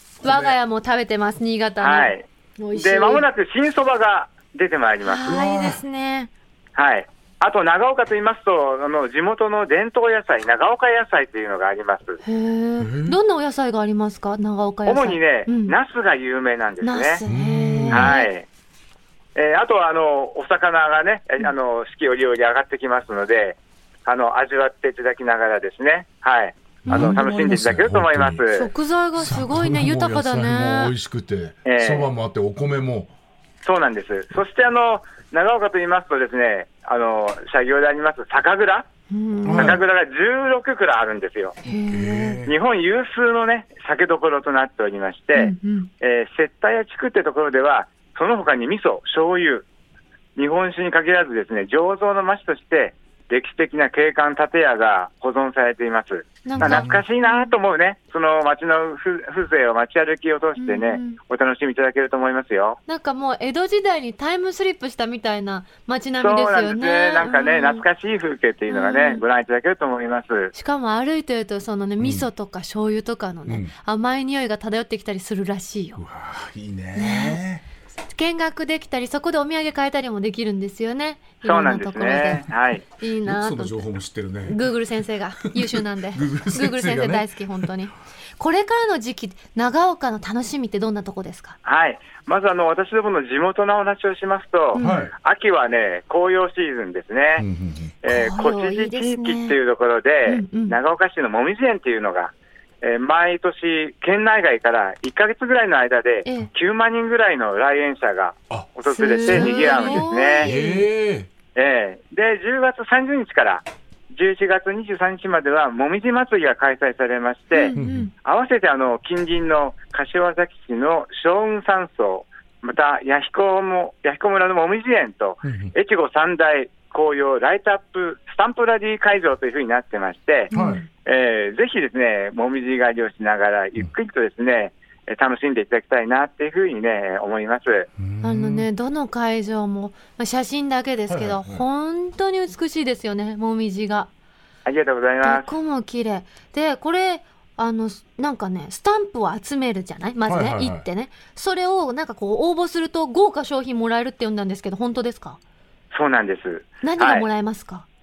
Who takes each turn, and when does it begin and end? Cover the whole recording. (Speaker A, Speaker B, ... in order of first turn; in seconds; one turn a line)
Speaker A: 0.2-0.6
Speaker B: 0.2-3.2
Speaker C: 1.8-2.2
Speaker C: 2.7-5.2
Speaker B: 5.0-6.3
Speaker A: 5.2-5.8
Speaker C: 6.8-12.2
Speaker B: 12.2-15.7
Speaker A: 12.8-13.2
Speaker C: 14.8-17.2
Speaker B: 16.8-18.3
Speaker A: 17.2-18.1
Speaker C: 17.9-18.4
Speaker C: 19.3-28.7
Speaker B: 26.9-27.3
Speaker A: 26.9-28.4
Speaker B: 28.5-30.9
Speaker A: 29.2-33.1
Speaker C: 31.6-32.1
Speaker C: 33.6-38.9
Speaker B: 39.1-39.8
Speaker A: 39.4-39.8
Speaker C: 39.5-41.6
Speaker B: 41.6-42.4
Speaker A: 41.9-42.5
Speaker C: 42.4-49.6
Speaker B: 45.3-45.9
Speaker C: 50.4-62.8
Speaker B: 56.4-57.5
Speaker A: 56.6-57.0
Speaker B: 60.6-61.2
Speaker B: 62.9-67.8
Speaker C: 66.2-70.5
Speaker B: 68.7-69.2
Speaker B: 70.5-76.0
Speaker A: 72.0-72.2
Speaker A: 73.5-73.7
Speaker A: 76.0-77.6
Speaker B: 76.9-77.4
Speaker B: 78.1-82.4
Speaker C: 81.4-82.8
Speaker B: 83.0-83.8
Speaker A: 83.2-84.7
Speaker B: 84.5-91.6
Speaker A: 85.4-87.7
Speaker C: 91.6-97.5
Speaker B: 94.7-95.0
Speaker A: 94.8-95.1
Speaker A: 97.4-97.9
Speaker C: 98.0-110.5
Speaker B: 98.1-99.5
Speaker B: 100.3-100.8
Speaker B: 106.2-106.5
Speaker B: 108.8-110.9
Speaker A: 109.3-111.3
Speaker C: 111.5-137.9
Speaker B: 117.5-118.1
Speaker A: 117.8-118.1
Speaker A: 125.4-125.7
Speaker B: 130.5-130.8
Speaker A: 130.5-130.8
Speaker A: 138.0-138.7
Speaker B: 138.2-144.1
Speaker A: 141.1-141.6
Speaker C: 144.6-145.5
Speaker B: 145.2-155.4
Speaker A: 150.3-150.8
Speaker C: 155.9-157.2
Speaker B: 156.8-157.8